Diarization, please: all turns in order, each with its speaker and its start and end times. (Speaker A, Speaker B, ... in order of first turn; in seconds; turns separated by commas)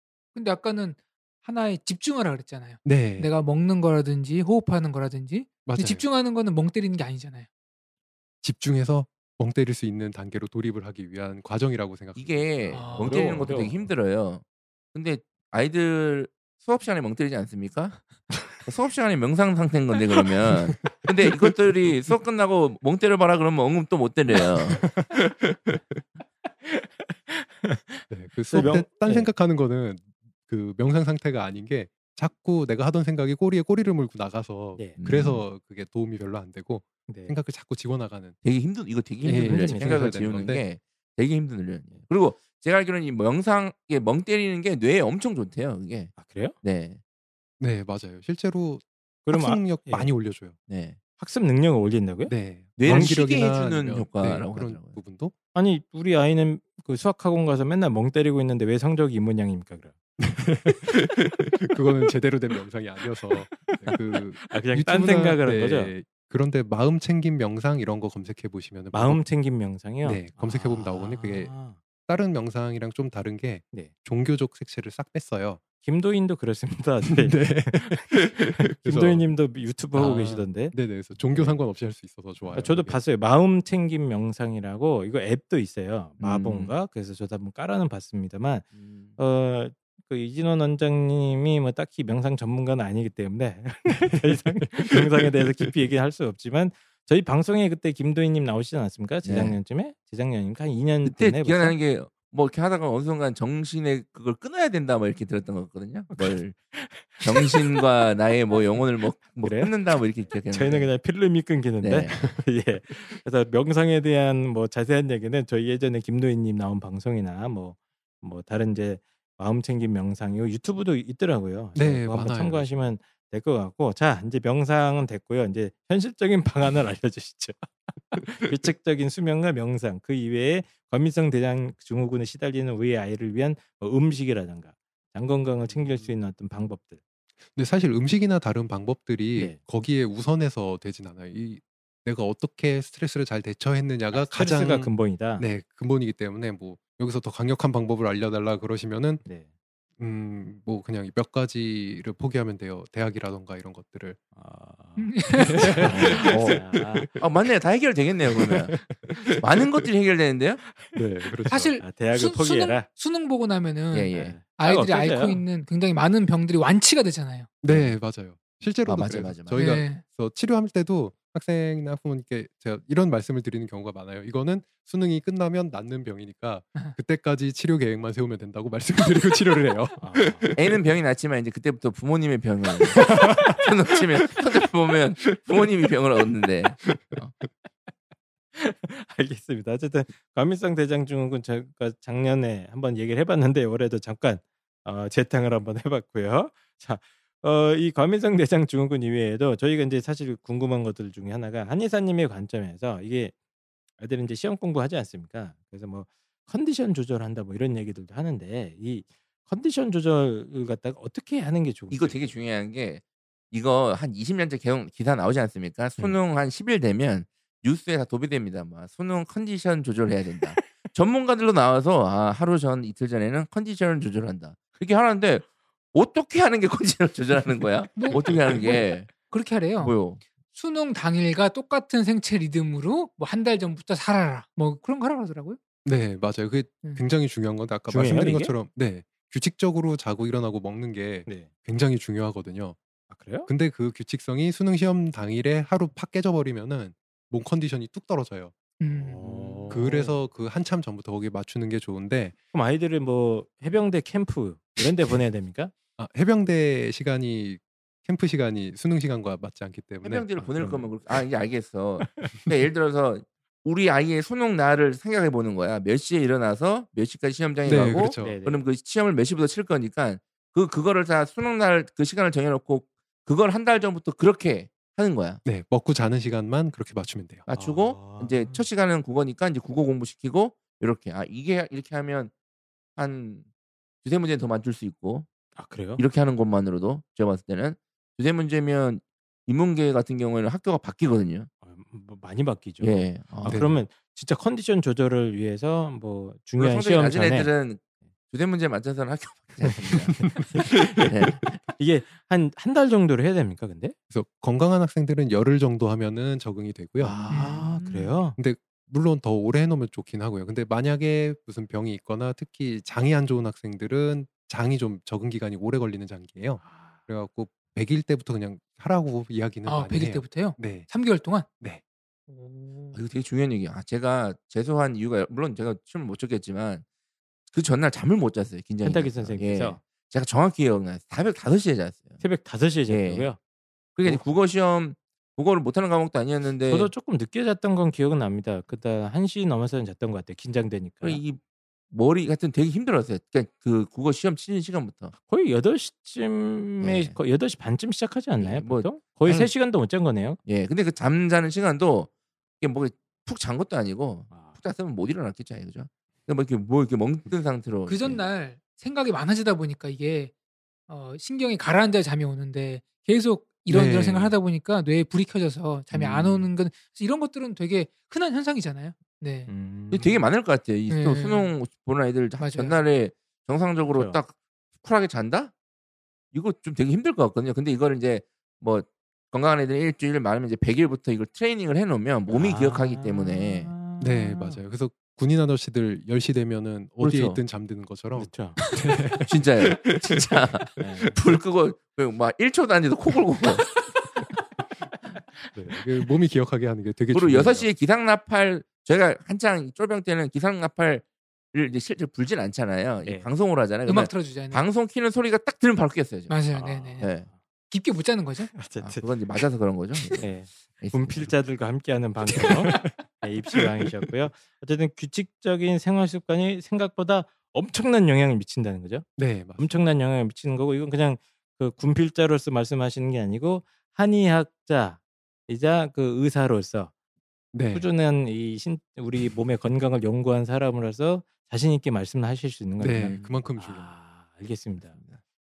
Speaker A: 0.3-7.5, Speaker B: 2.9-3.3, Speaker B: 5.7-6.1, Speaker B: 8.4-13.7, Speaker C: 12.2-14.4, Speaker A: 12.7-13.4, Speaker D: 13.0-13.8, Speaker C: 14.9-18.0, Speaker C: 18.6-25.0, Speaker D: 26.7-29.3, Speaker B: 28.1-38.4, Speaker C: 35.0-35.4, Speaker D: 37.1-37.4, Speaker C: 38.4-47.0, Speaker B: 39.2-40.6, Speaker D: 39.3-40.2, Speaker D: 46.2-46.6, Speaker B: 47.6-50.6, Speaker D: 49.3-50.1, Speaker C: 50.7-51.0, Speaker D: 51.2-52.3, Speaker B: 52.3-55.3, Speaker C: 52.8-55.0, Speaker D: 52.9-53.1, Speaker D: 55.5-60.0, Speaker B: 60.2-69.2, Speaker D: 63.7-65.9, Speaker D: 68.9-71.8, Speaker B: 70.0-71.5, Speaker B: 72.1-75.6, Speaker D: 75.8-80.8, Speaker B: 77.1-79.3, Speaker B: 79.9-83.0, Speaker D: 81.3-81.6, Speaker D: 82.5-101.8, Speaker C: 86.2-86.7, Speaker C: 88.8-89.2, Speaker C: 99.2-99.6, Speaker C: 101.0-106.6, Speaker D: 106.1-107.6, Speaker C: 107.2-110.9, Speaker D: 109.4-109.7, Speaker D: 110.5-137.0, Speaker C: 111.8-112.2, Speaker B: 121.8-122.7, Speaker B: 135.7-136.1, Speaker B: 137.5-149.2, Speaker D: 144.1-145.5, Speaker B: 150.0-154.2, Speaker D: 154.3-157.1, Speaker A: 155.0-155.9, Speaker B: 155.5-157.1, Speaker C: 155.9-156.6, Speaker C: 157.2-158.8, Speaker B: 158.4-159.4, Speaker C: 159.4-160.6, Speaker D: 160.8-162.9, Speaker B: 160.9-161.8, Speaker A: 161.5-167.5, Speaker C: 163.9-164.4, Speaker D: 164.1-165.4, Speaker B: 167.6-180.7, Speaker C: 168.8-169.7, Speaker A: 169.6-170.0, Speaker D: 180.0-180.5, Speaker C: 180.6-187.3, Speaker B: 183.0-183.6, Speaker D: 188.6-203.3, Speaker D: 204.0-212.3, Speaker C: 211.9-229.1, Speaker A: 228.0-230.0, Speaker C: 229.8-230.2, Speaker A: 230.5-235.6, Speaker B: 235.8-242.8, Speaker D: 237.9-238.6, Speaker D: 243.1-243.5, Speaker B: 243.5-248.5, Speaker A: 248.8-249.8, Speaker D: 248.9-250.2, Speaker B: 249.7-252.3, Speaker D: 252.5-255.7, Speaker B: 256.0-260.9, Speaker C: 260.0-275.4, Speaker B: 267.6-268.4, Speaker D: 268.2-268.7, Speaker B: 275.4-277.4, Speaker C: 277.5-282.3, Speaker D: 277.5-278.6, Speaker C: 283.0-283.5, Speaker C: 284.0-285.3, Speaker D: 285.6-286.0, Speaker C: 286.0-291.5, Speaker D: 291.6-297.5, Speaker C: 292.8-293.6, Speaker B: 293.4-293.8, Speaker C: 296.6-301.5, Speaker D: 299.7-301.1, Speaker D: 301.8-304.0, Speaker B: 304.1-307.2, Speaker D: 307.0-308.4, Speaker C: 307.1-307.4, Speaker A: 307.3-308.1, Speaker B: 308.4-320.9, Speaker D: 316.6-317.0, Speaker A: 319.7-321.5, Speaker A: 322.3-323.0, Speaker C: 322.9-326.9, Speaker C: 327.5-332.2, Speaker D: 328.8-329.8, Speaker D: 332.2-333.4, Speaker C: 332.9-333.3, Speaker C: 334.0-336.9, Speaker D: 336.7-341.2, Speaker C: 341.0-341.4, Speaker C: 341.9-345.1, Speaker D: 345.2-350.4, Speaker C: 346.8-347.2, Speaker C: 348.4-349.5, Speaker C: 350.4-358.2, Speaker D: 354.3-354.6, Speaker A: 357.9-360.3, Speaker A: 360.9-369.5, Speaker B: 363.7-364.4, Speaker D: 365.9-366.5, Speaker D: 369.5-370.3, Speaker C: 369.9-375.5, Speaker A: 370.9-371.5, Speaker A: 372.4-372.8, Speaker D: 373.9-374.2, Speaker C: 376.3-383.7, Speaker D: 382.3-384.6, Speaker B: 384.0-389.5, Speaker C: 387.0-387.4, Speaker D: 388.1-388.6, Speaker C: 389.3-393.8, Speaker D: 390.8-391.2, Speaker D: 395.5-395.8, Speaker B: 395.6-397.7, Speaker C: 397.1-406.4, Speaker A: 403.9-404.6, Speaker A: 406.3-407.1, Speaker D: 406.5-407.3, Speaker C: 407.0-407.3, Speaker A: 407.7-408.5, Speaker D: 408.5-409.2, Speaker C: 408.8-410.2, Speaker D: 410.2-426.9, Speaker C: 410.8-411.4, Speaker B: 419.2-419.8, Speaker B: 427.5-427.9, Speaker D: 427.7-435.0, Speaker B: 432.8-433.9, Speaker C: 433.0-433.3